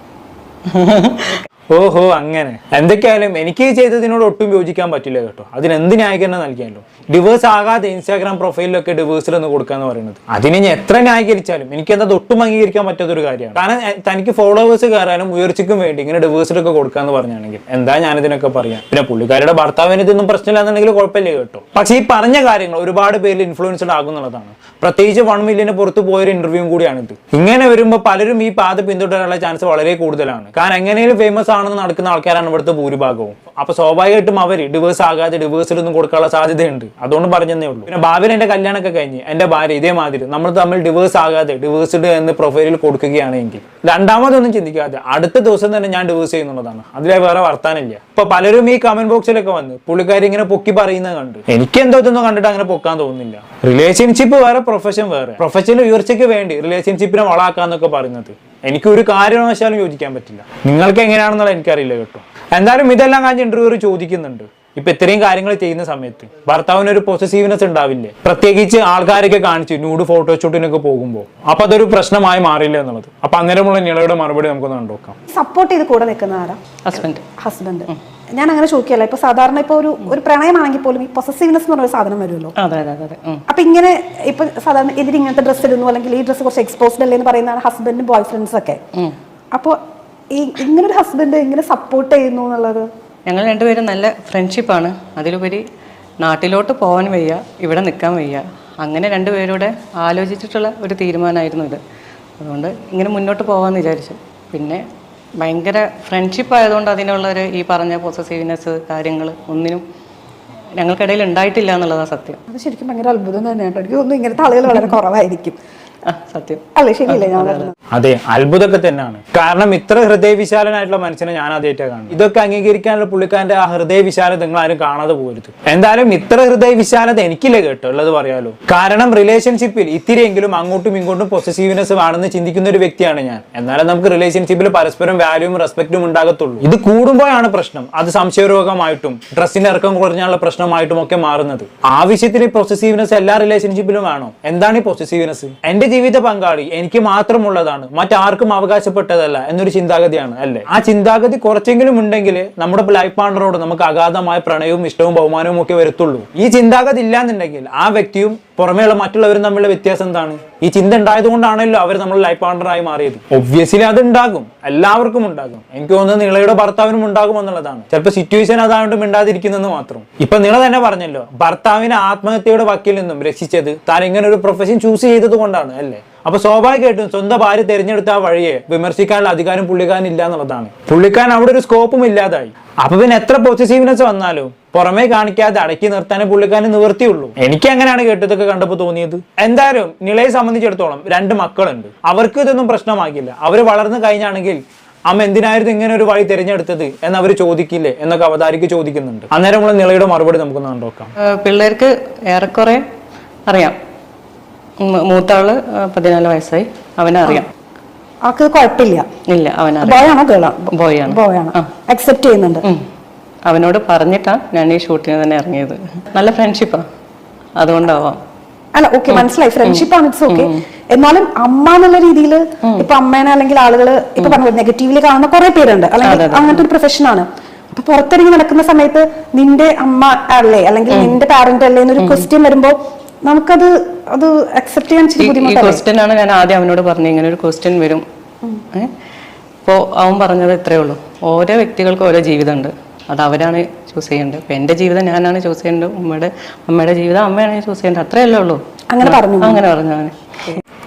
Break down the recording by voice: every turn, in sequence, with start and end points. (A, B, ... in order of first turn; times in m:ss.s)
0:00.7-0:01.4 A
0:01.7-1:15.2 B
1:15.3-1:22.5 C
1:16.8-1:17.2 A
1:22.6-1:23.4 A
1:23.5-1:28.8 C
1:29.5-1:29.8 C
1:30.3-1:32.9 C
1:33.3-1:35.6 A
1:36.2-1:41.8 A
1:42.4-1:44.8 A
1:45.4-1:49.8 A
1:50.8-1:52.4 A
1:52.5-1:55.6 C
1:56.1-1:57.7 A
1:56.8-1:57.7 C
1:57.9-3:21.1 B
3:21.4-3:22.8 A
3:23.5-3:23.8 A
3:24.8-3:27.5 A
3:28.2-3:29.0 C
3:29.3-3:30.1 A
3:29.8-3:32.6 C
3:30.7-3:31.7 A
3:33.5-3:36.8 A
3:37.6-3:38.2 A
3:38.7-3:55.8 C
3:39.1-3:40.6 A
3:42.6-3:42.9 A
3:46.0-3:46.6 A
3:50.9-3:51.2 A
3:52.0-3:52.3 A
3:55.2-3:58.0 A
3:59.6-4:10.6 A
4:08.9-4:09.6 C